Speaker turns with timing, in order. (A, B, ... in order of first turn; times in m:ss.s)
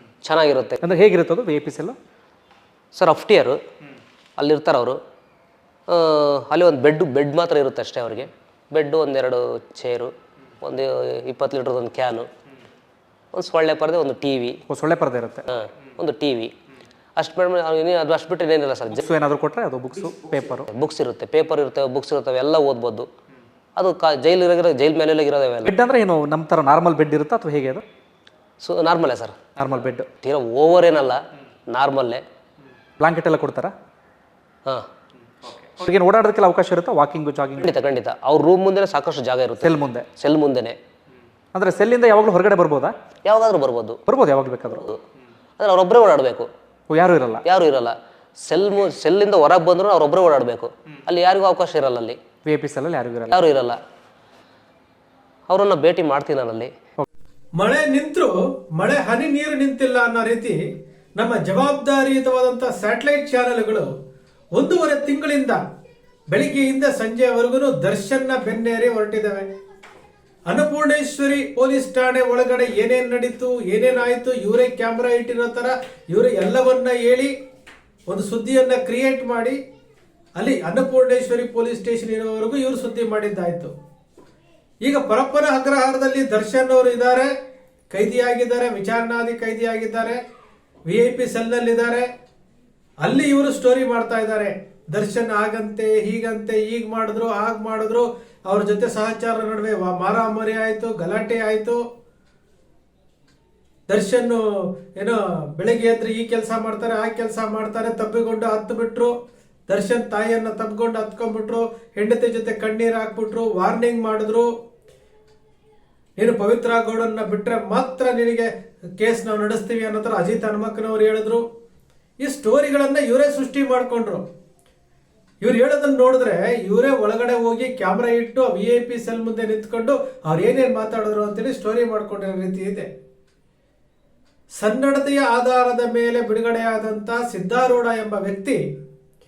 0:00.2-0:00.8 A
0:00.8-0:02.0 B
0:02.9-0:03.6 A
0:04.4-0:05.0 A
0:05.9-0:12.3 A
0:13.3-0:14.6 A
0:14.7-0:15.5 B
0:15.5-0:16.5 A
0:17.2-0:19.0 A
0:18.9-0:20.7 B
0:20.7-0:23.1 A
0:23.8-0:25.7 A
0:25.6-0:27.8 B
0:28.6-0:29.3 A
0:29.6-0:30.1 B
0:30.2-0:31.2 A
0:31.7-0:32.2 A
0:33.0-0:33.7 B
0:35.4-0:37.7 B
0:37.6-0:40.8 A
0:39.6-0:40.1 B
0:41.5-0:42.9 B
0:43.2-0:44.0 A
0:44.1-0:44.9 B
0:45.6-0:46.5 A
0:46.9-0:47.4 B
0:47.4-0:47.9 A
0:48.4-0:52.2 A
0:52.4-0:53.4 B
0:53.3-0:53.8 A
0:55.5-0:56.7 A
0:57.6-1:00.6 C
1:01.2-1:03.9 C
1:04.6-1:05.6 C
1:06.3-1:09.4 C
1:10.5-1:17.3 C
1:18.1-1:19.6 C
1:20.4-1:23.7 C
1:24.8-1:27.3 C
1:27.9-1:30.2 C
1:30.9-1:32.0 C
1:33.0-1:41.8 C
1:43.9-1:44.4 C
1:45.0-1:49.1 C
1:49.7-1:54.5 C
1:56.2-1:58.5 C
1:59.0-2:01.4 C
2:02.2-2:04.2 C
2:05.4-2:12.9 C
2:14.6-2:18.6 C